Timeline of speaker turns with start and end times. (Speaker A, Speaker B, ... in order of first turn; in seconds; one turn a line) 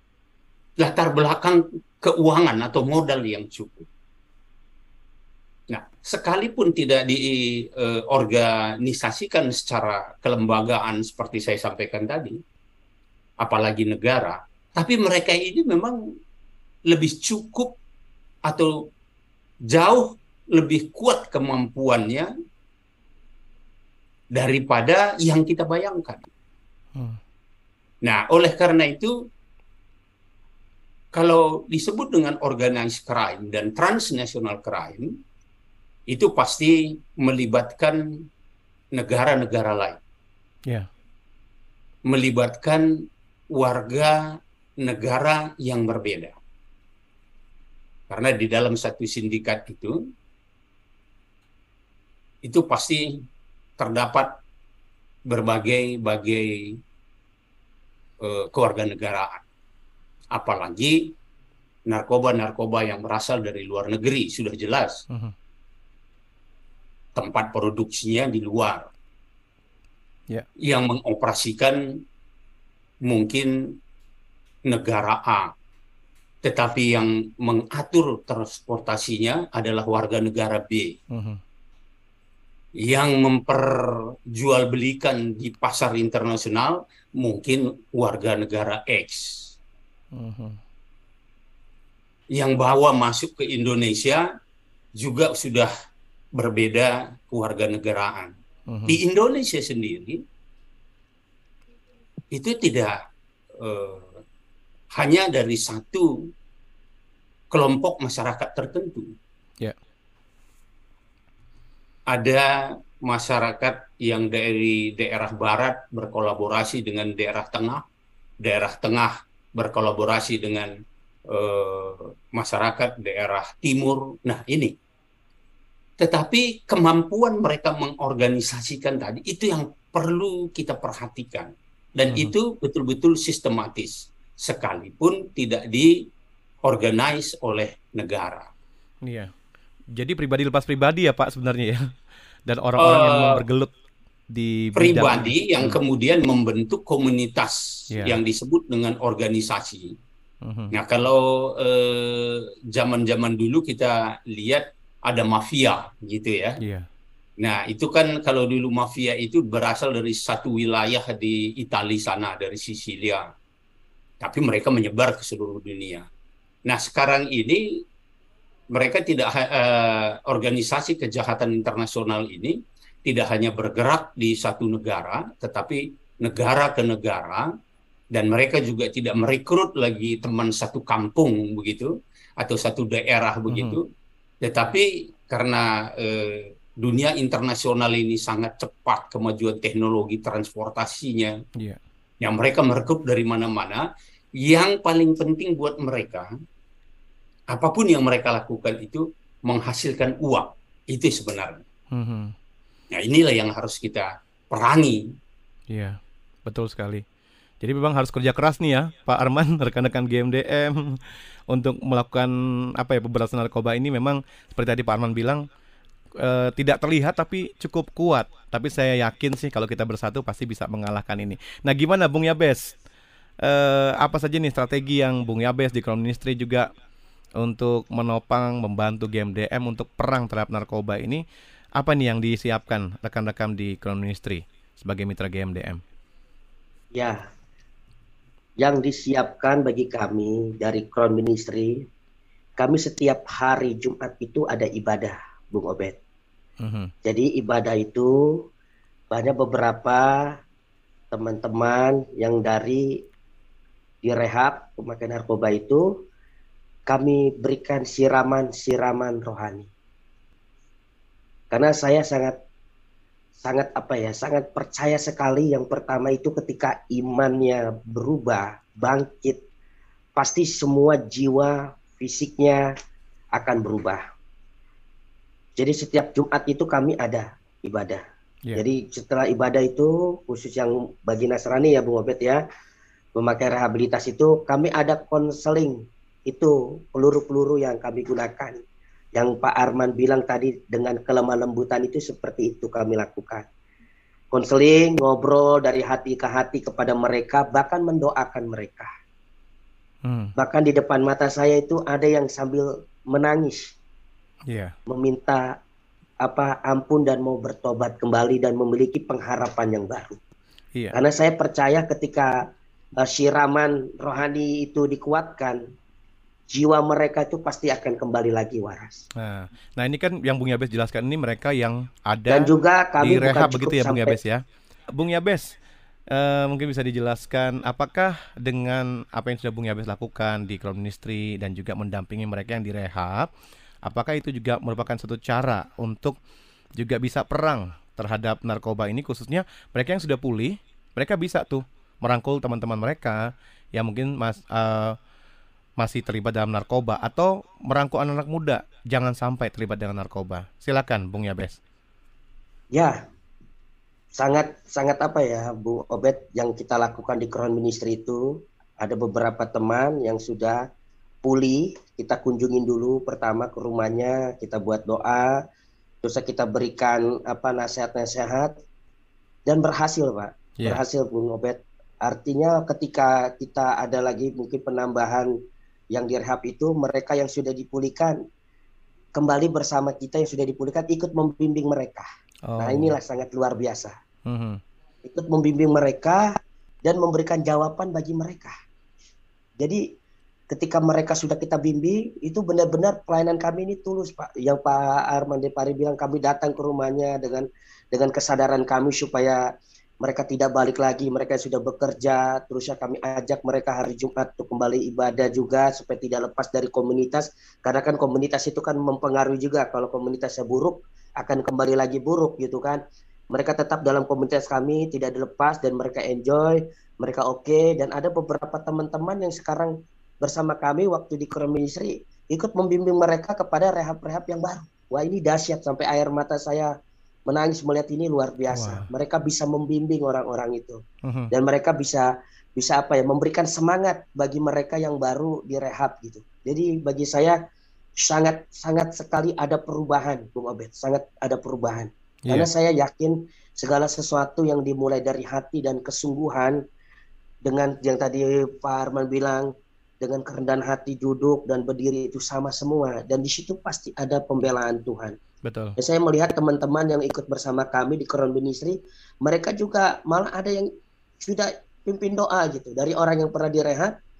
Speaker A: 0.8-3.9
Speaker A: 5.7-12.4
Speaker A: 13.4-16.0
Speaker A: 16.9-17.8
Speaker A: 18.4-18.9
Speaker A: 19.7-22.3
Speaker A: 24.3-26.2
Speaker B: 26.9-27.2
Speaker A: 28.0-29.1
Speaker A: 31.1-35.2
Speaker A: 36.1-38.0
Speaker A: 38.9-40.0
Speaker A: 42.0-42.9
Speaker A: 43.5-44.2
Speaker A: 44.8-46.4
Speaker A: 48.1-50.0
Speaker A: 52.4-53.2
Speaker A: 53.8-54.3
Speaker A: 55.3-56.8
Speaker A: 58.2-59.4
Speaker A: 60.3-61.1
Speaker A: 61.9-65.0
Speaker A: 67.1-68.9
Speaker A: 70.6-71.8
Speaker A: 73.1-73.8
Speaker A: 74.7-75.5
Speaker A: 76.4-80.9
Speaker B: 81.1-81.4
Speaker A: 82.8-89.5
Speaker B: 90.1-90.6
Speaker A: 92.3-94.3
Speaker A: 95.0-95.7
Speaker A: 96.3-98.3
Speaker B: 98.7-99.0
Speaker A: 98.8-100.2
Speaker A: 102.3-103.0
Speaker A: 103.6-104.2
Speaker A: 104.9-106.3
Speaker A: 107.5-109.1
Speaker A: 112.1-117.8
Speaker A: 118.4-120.7
Speaker A: 121.3-124.7
Speaker A: 126.0-136.1
Speaker B: 132.1-132.3
Speaker A: 136.6-138.5
Speaker B: 139.0-139.3
Speaker B: 139.9-141.9
Speaker B: 142.4-143.7
Speaker A: 142.8-143.4
Speaker B: 144.3-145.8
Speaker A: 144.8-150.0
Speaker B: 147.9-148.2
Speaker B: 150.4-150.7
Speaker A: 150.7-156.6
Speaker B: 156.6-156.9
Speaker A: 157.4-163.3
Speaker A: 164.2-166.1
Speaker A: 166.7-167.8
Speaker A: 168.7-177.5
Speaker A: 178.1-183.8
Speaker B: 183.5-183.8
Speaker A: 184.4-191.3
Speaker A: 192.2-193.8
Speaker A: 194.4-196.3
Speaker A: 197.5-201.6
Speaker B: 201.9-202.3
Speaker A: 202.9-205.1
Speaker B: 205.7-207.0
Speaker B: 207.6-215.4
Speaker B: 216.2-222.7
Speaker B: 223.4-226.7
Speaker B: 227.4-231.2
Speaker B: 231.8-235.8
Speaker C: 236.9-237.2
Speaker C: 238.6-241.8
Speaker C: 242.6-246.0
Speaker B: 246.6-246.9
Speaker C: 247.0-248.4
Speaker C: 249.1-250.3
Speaker C: 251.1-253.0
Speaker C: 254.0-255.9
Speaker C: 256.9-259.7
Speaker C: 261.5-262.4
Speaker C: 263.4-269.4
Speaker C: 270.1-272.7
Speaker C: 273.4-274.0
Speaker C: 275.6-278.0
Speaker C: 278.6-282.4
Speaker C: 283.1-288.6
Speaker C: 289.1-293.4
Speaker C: 294.3-298.9
Speaker B: 300.0-300.3
Speaker C: 300.4-303.7
Speaker B: 304.5-304.7
Speaker C: 304.9-305.6
Speaker C: 306.2-310.2
Speaker C: 310.9-312.5
Speaker C: 313.0-315.6
Speaker C: 316.5-319.0
Speaker B: 319.1-325.5
Speaker C: 322.3-324.2
Speaker B: 326.1-333.3
Speaker B: 333.8-336.2
Speaker B: 336.8-345.0
Speaker B: 345.8-351.6
Speaker C: 352.7-353.0
Speaker C: 354.1-360.6
Speaker C: 361.2-365.4
Speaker C: 366.0-368.6
Speaker C: 369.4-375.3
Speaker C: 375.9-378.2
Speaker C: 379.1-382.1
Speaker B: 382.5-383.0
Speaker C: 382.6-383.9
Speaker B: 384.2-384.6
Speaker C: 385.0-388.5
Speaker C: 389.6-389.8
Speaker C: 390.5-399.5
Speaker C: 400.0-426.7
Speaker C: 427.3-437.4
Speaker B: 428.5-428.9
Speaker B: 431.0-431.3
Speaker C: 438.0-446.6
Speaker C: 447.4-455.1
Speaker B: 455.4-455.8
Speaker C: 455.8-460.7
Speaker C: 461.2-463.9